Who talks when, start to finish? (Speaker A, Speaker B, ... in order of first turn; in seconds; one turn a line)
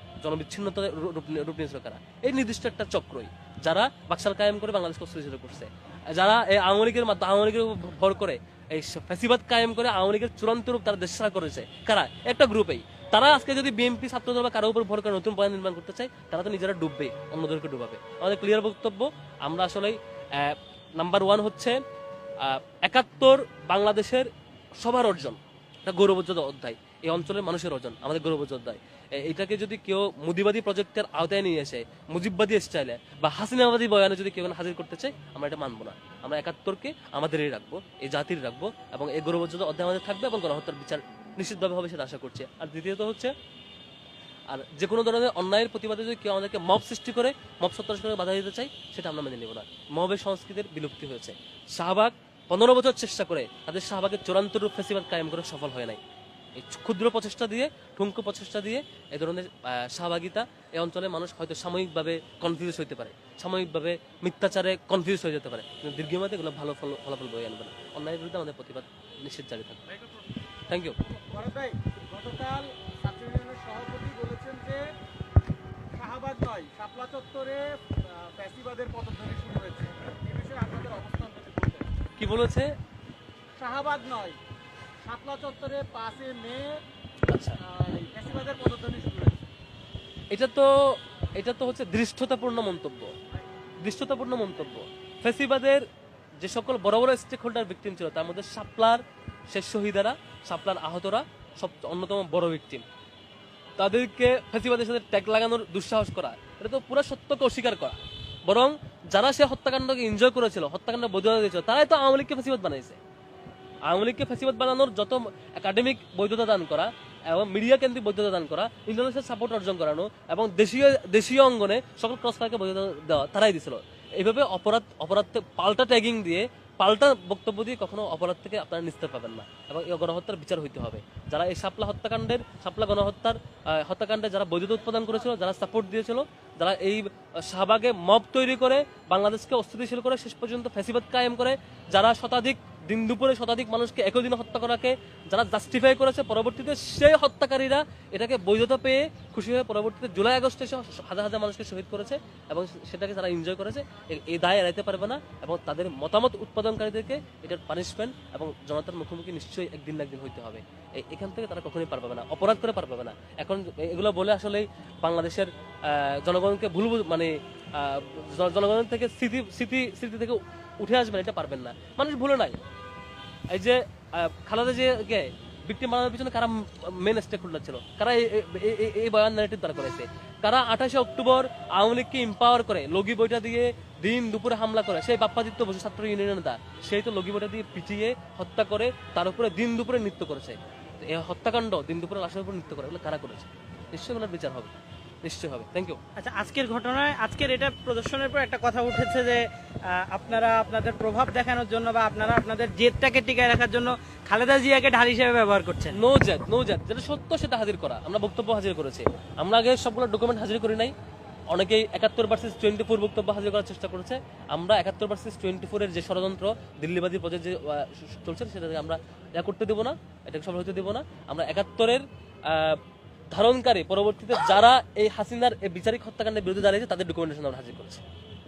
Speaker A: 0.2-21.8
Speaker A: 22.4-43.3
Speaker A: 44.5-56.0
Speaker A: 56.6-69.8
Speaker A: 70.7-71.0
Speaker B: 71.2-75.0
Speaker B: 75.9-81.9
Speaker A: 82.2-82.7
Speaker B: 83.6-84.4
Speaker B: 85.0-86.8
Speaker A: 87.3-87.6
Speaker B: 87.6-89.5
Speaker A: 90.3-93.1
Speaker A: 93.8-95.8
Speaker A: 96.4-102.8
Speaker A: 103.8-113.0
Speaker A: 113.9-172.6
Speaker A: 173.5-194.7
Speaker A: 195.2-196.0
Speaker C: 196.2-206.0
Speaker A: 205.9-210.9
Speaker A: 211.5-222.8
Speaker A: 223.3-228.0